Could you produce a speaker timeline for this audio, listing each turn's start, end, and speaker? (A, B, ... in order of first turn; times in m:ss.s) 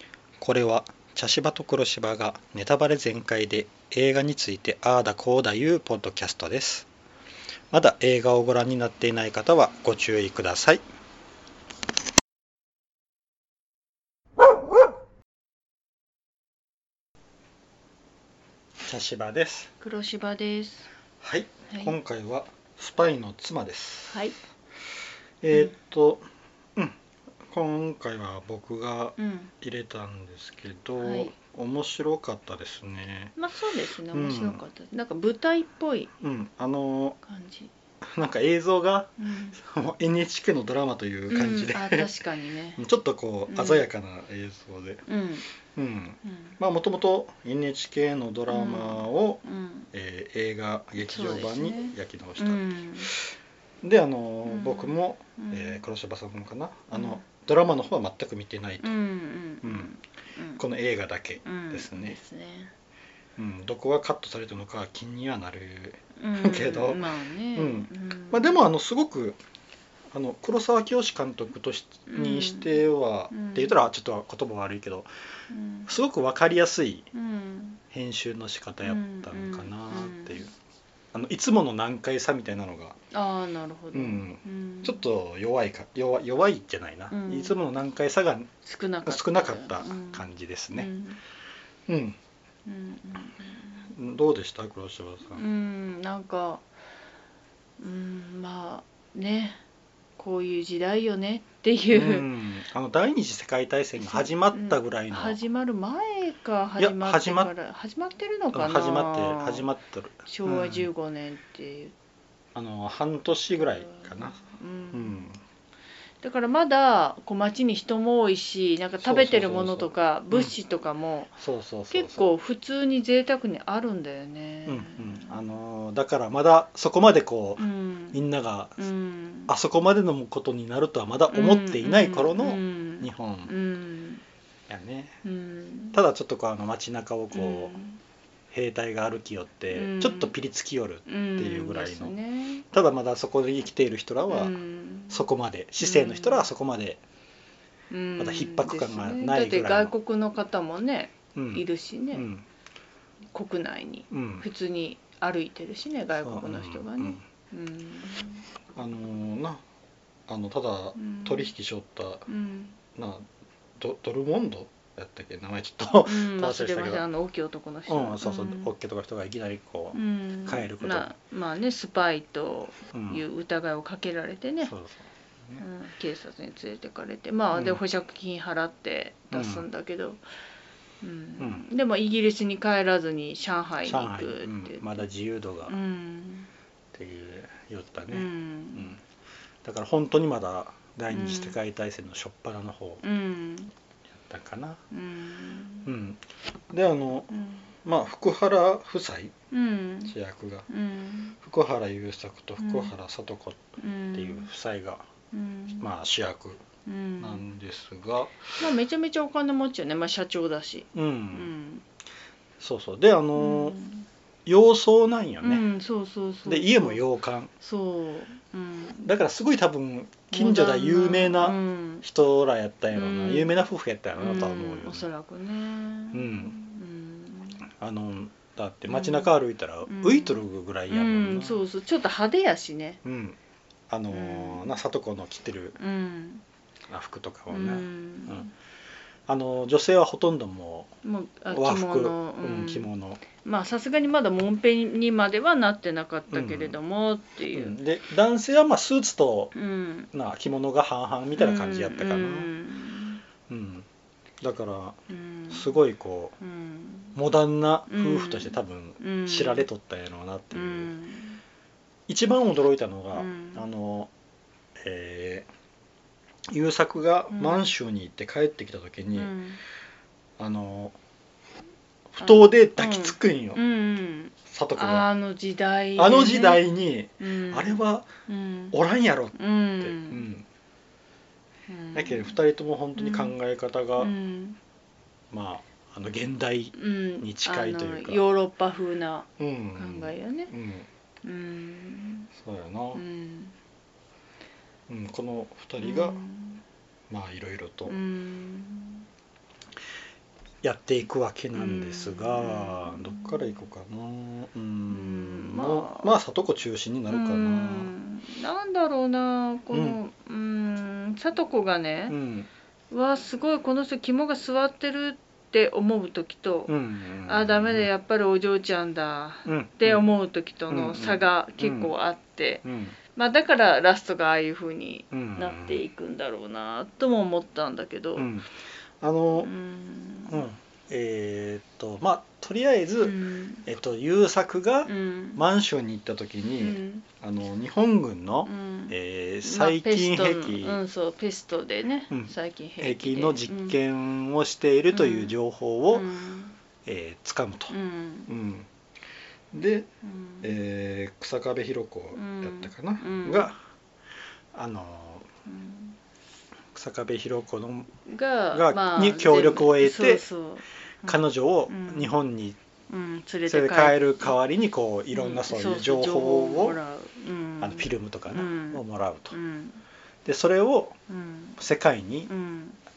0:00.4-0:06.9 A
0:07.7-0:10.8 A
0:18.8-0:19.7 A
0:19.8-0:20.9 B
0:21.2-0:24.2 A
0:21.7-0:22.0 B
0:24.1-0:24.4 B
0:25.4-0:26.2 A
0:26.8-0:33.3 A
0:29.2-0:29.5 B
0:31.0-0:31.3 B
0:33.4-0:36.1 B
0:34.1-0:34.6 A
0:36.2-0:37.2 A
0:37.2-0:37.7 B
0:38.0-0:42.1 A
0:39.2-0:39.6 B
0:41.3-0:42.8 B
0:42.8-0:45.0 A
0:43.5-0:43.8 B
0:45.1-0:45.4 B
0:45.8-0:49.4 A
0:46.2-0:46.5 B
0:48.5-0:49.9 B
0:49.9-0:53.3 A
0:51.0-0:53.1 B
0:53.8-0:58.9 A
0:54.4-0:55.8 B
0:56.9-0:57.2 B
0:58.8-1:00.6 B
0:59.6-0:59.9 A
1:00.6-1:02.2 A
1:01.4-1:02.7 B
1:03.4-1:09.4 A
1:06.2-1:08.6 B
1:10.1-1:15.1 A
1:12.1-1:13.8 B
1:15.5-1:15.9 B
1:15.9-1:17.1 A
1:17.1-1:17.8 B
1:17.9-1:20.5 A
1:18.8-1:20.5 B
1:21.1-1:23.0 A
1:23.1-1:25.0 B
1:23.9-1:28.5 A
1:27.1-1:27.6 B
1:28.6-1:31.2 B
1:29.0-1:30.9 A
1:31.9-1:32.2 A
1:32.7-1:33.9 B
1:33.9-1:35.4 A
1:35.3-1:36.6 B
1:37.8-1:39.6 B
1:40.2-1:42.3 B
1:41.9-1:45.4 A
1:44.0-1:49.7 B
1:46.8-1:47.5 A
1:48.5-1:50.9 A
1:50.2-1:51.9 B
1:52.6-1:54.4 A
1:53.5-1:55.2 B
1:54.9-1:55.4 A
1:56.2-2:01.3 B
1:59.0-2:00.5 A
2:01.4-2:02.2 A
2:01.9-2:05.4 B
2:04.7-2:08.8 A
2:07.6-2:08.2 B
2:08.8-2:09.5 B
2:09.5-2:13.5 A
2:11.3-2:14.2 B
2:14.7-2:15.2 A
2:15.2-2:16.0 B
2:15.9-2:17.8 A
2:17.3-2:18.0 B
2:18.5-2:22.1 A
2:19.7-2:20.3 B
2:21.1-2:22.6 B
2:22.7-2:24.5 A
2:24.3-2:25.2 B
2:25.1-2:27.0 A
2:25.8-2:26.5 B
2:27.9-2:32.3 B
2:28.2-2:29.9 A
2:31.3-2:32.4 A
2:33.3-2:38.4 B
2:34.1-2:34.4 A
2:36.2-2:37.2 A
2:38.8-2:39.6 A
2:40.3-2:42.2 A
2:41.0-2:41.5 B
2:42.3-2:42.8 B
2:42.9-2:43.2 A
2:43.8-2:47.0 A
2:46.0-2:48.7 B
2:47.9-2:51.1 A
2:49.9-2:54.7 B
2:52.9-2:53.2 A
2:54.6-2:55.6 A
2:55.6-3:00.2 B
2:57.5-2:57.8 A
2:59.3-2:59.6 A
3:01.0-3:05.0 B
3:01.4-3:01.7 A
3:03.8-3:05.8 A
3:05.7-3:06.5 B
3:06.9-3:09.0 A
3:08.1-3:09.0 B
3:09.6-3:13.0 A
3:11.1-3:11.6 B
3:13.0-3:13.7 B
3:14.2-3:14.8 A
3:14.9-3:15.9 B
3:15.8-3:17.3 A
3:17.3-3:17.7 B
3:17.8-3:19.3 A
3:19.5-3:20.1 B
3:20.1-3:20.7 A
3:20.7-3:21.4 B
3:21.4-3:23.6 A
3:22.6-3:22.9 B
3:23.8-3:24.5 B
3:24.2-3:25.0 A
3:25.3-3:25.9 B
3:25.8-3:26.6 A
3:26.8-3:27.4 B
3:27.2-3:28.6 A
3:28.6-3:31.8 B
3:30.9-3:31.5 A
3:32.6-3:33.8 A
3:33.4-3:34.1 B
3:34.5-3:35.6 A
3:35.4-3:37.0 B
3:36.5-3:37.5 A
3:37.6-3:39.0 B
3:39.0-3:45.1 A
3:40.3-3:42.0 B
3:42.9-3:43.5 B
3:44.2-3:47.7 B
3:46.1-3:46.5 A
3:47.8-3:51.6 A
3:48.9-3:49.3 B
3:49.8-3:53.0 B
3:53.0-3:53.4 A
3:53.9-3:55.8 A
3:54.1-3:54.7 B
3:55.8-3:56.4 B
3:56.9-3:58.4 A
3:57.5-3:58.5 B
3:59.3-4:00.9 A
4:01.0-4:07.8 B
4:01.5-4:03.2 A
4:06.3-4:06.8 A
4:07.5-4:09.5 A
4:09.5-4:10.1 B
4:10.1-4:12.5 A
4:11.4-4:13.2 B
4:13.5-4:13.8 A
4:14.4-4:15.0 A
4:15.1-4:15.8 B
4:15.5-4:16.4 A
4:16.4-4:17.2 B
4:17.1-4:20.9 A
4:17.9-4:19.7 B
4:20.5-4:21.4 B
4:22.1-4:24.1 A
4:23.1-4:23.6 B
4:24.8-4:25.5 A
4:26.5-4:29.3 A
4:27.3-4:27.6 B
4:29.1-4:29.6 B
4:30.4-4:31.0 A
4:32.1-4:33.6 A
4:32.2-4:36.6 B
4:34.5-4:35.1 A
4:36.0-4:38.1 A
4:37.2-4:38.8 B
4:38.7-4:40.4 A
4:39.3-4:40.2 B
4:41.7-4:42.4 B
4:41.9-4:44.1 A
4:43.0-4:43.4 B
4:44.0-4:44.6 B
4:45.3-4:48.2 A
4:46.7-4:50.5 B
4:49.4-4:50.8 A
4:51.2-4:52.3 B
4:52.4-4:53.0 A
4:52.9-4:53.5 B
4:54.9-4:56.2 A
4:55.8-4:56.6 B
4:57.1-4:58.0 A
4:57.9-4:59.0 B
5:00.6-5:07.9 A
5:01.5-5:03.6 B
5:04.9-5:06.2 B
5:07.1-5:12.2 B
5:09.7-5:10.0 A
5:12.1-5:12.5 A
5:12.9-5:16.7 B
5:16.7-5:17.9 A
5:17.2-5:28.3 B
5:19.4-5:20.0 A
5:20.7-5:21.9 A
5:22.6-5:23.0 A
5:25.1-5:25.8 A
5:28.2-5:28.5 A
5:29.0-5:29.5 A
5:29.4-5:30.4 B
5:30.3-5:40.8 A
5:33.0-5:33.7 B
5:34.8-5:35.4 B
5:36.6-5:37.0 B
5:38.4-5:43.8 B
5:42.1-5:46.1 A
5:44.9-5:45.4 B
5:45.9-5:46.5 B
5:46.8-5:47.7 A
5:47.7-5:48.3 B
5:48.3-5:48.7 A
5:49.5-5:49.9 A
5:50.0-5:50.5 B
5:50.4-5:53.6 A
5:52.1-5:53.5 B
5:54.5-5:55.2 A
5:55.4-5:56.0 B
5:56.7-5:57.9 A
5:58.0-6:02.1 B
5:58.5-6:00.2 A
6:01.0-6:02.6 A
6:02.9-6:04.3 B
6:03.4-6:06.8 A
6:05.1-6:09.8 B
6:07.6-6:09.3 A
6:10.2-6:11.0 A
6:11.1-6:11.6 B
6:11.6-6:12.3 A
6:12.3-6:12.8 B